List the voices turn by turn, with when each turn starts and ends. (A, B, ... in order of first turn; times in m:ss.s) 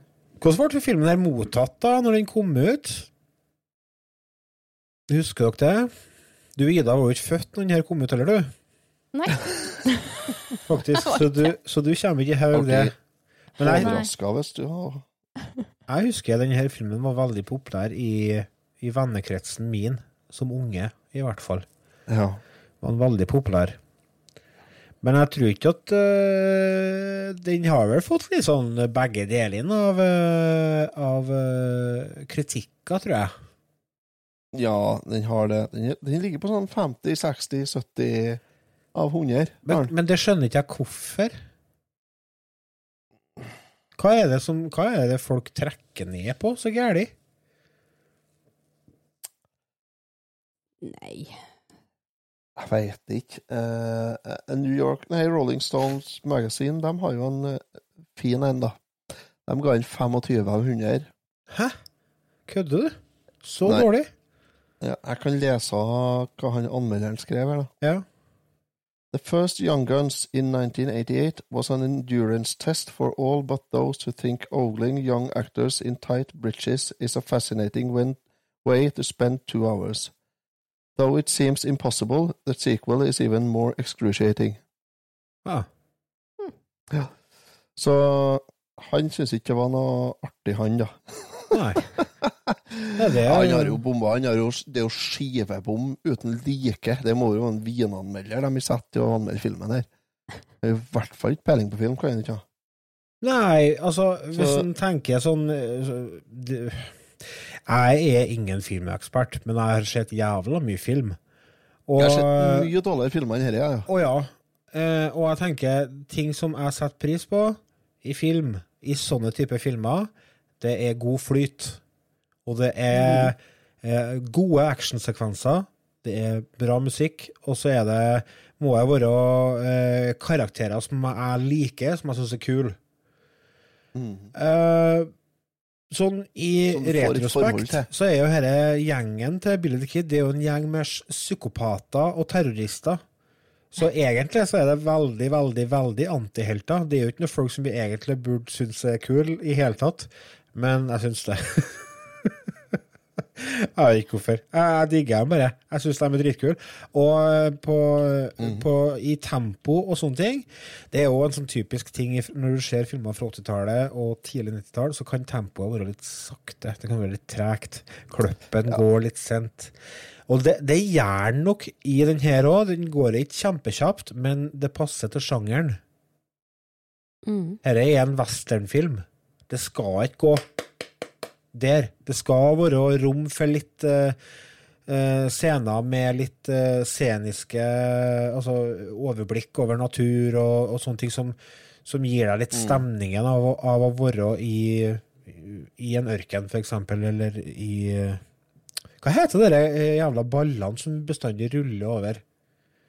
0:00.4-0:03.1 A
0:05.1-0:05.9 A
0:06.6-0:08.5 A
0:09.1-0:11.5 B
0:10.7-0:12.9 A
0:12.5-0:12.9 C
0:13.6-0:14.0 A
0:13.6-0:15.0 C
0:13.8-0:14.1 B
0:15.9-0:21.6 A
0:22.1-0:22.4 C
0:22.8-0:23.8 A
0:25.0-0:33.3 A
0:34.5-0:38.4 C
0:38.9-0:39.9 C
0:39.6-0:41.4 A
0:44.0-0:47.1 A
0:50.8-0:51.4 B
0:52.6-0:58.8 C
0:59.4-1:01.1 C
1:01.5-1:01.8 A
1:02.5-1:04.1 A
1:04.8-1:07.7 C
1:09.1-1:20.1 C
1:21.0-1:24.6 C
1:27.8-1:39.9 C
1:31.5-1:31.9 A
1:33.0-1:33.8 A
1:40.6-1:42.4 C
1:43.2-1:51.2 A
1:44.3-1:44.7 C
1:51.9-1:52.7 A
1:52.0-1:53.9 C
1:53.9-2:01.8 A
2:02.4-2:12.8 A
2:02.9-2:03.3 C
2:13.9-2:14.3 C
2:14.3-2:15.1 A
2:15.9-2:23.0 A
2:16.7-2:17.9 C
2:23.7-2:32.3 A
2:33.4-2:49.7 A
2:38.4-2:38.7 C
2:50.3-2:55.8 A
2:57.3-2:57.6 B
2:57.6-3:00.4 A
3:01.5-3:04.2 A
3:04.9-3:18.2 A
3:12.5-3:12.8 C
3:19.0-3:22.2 A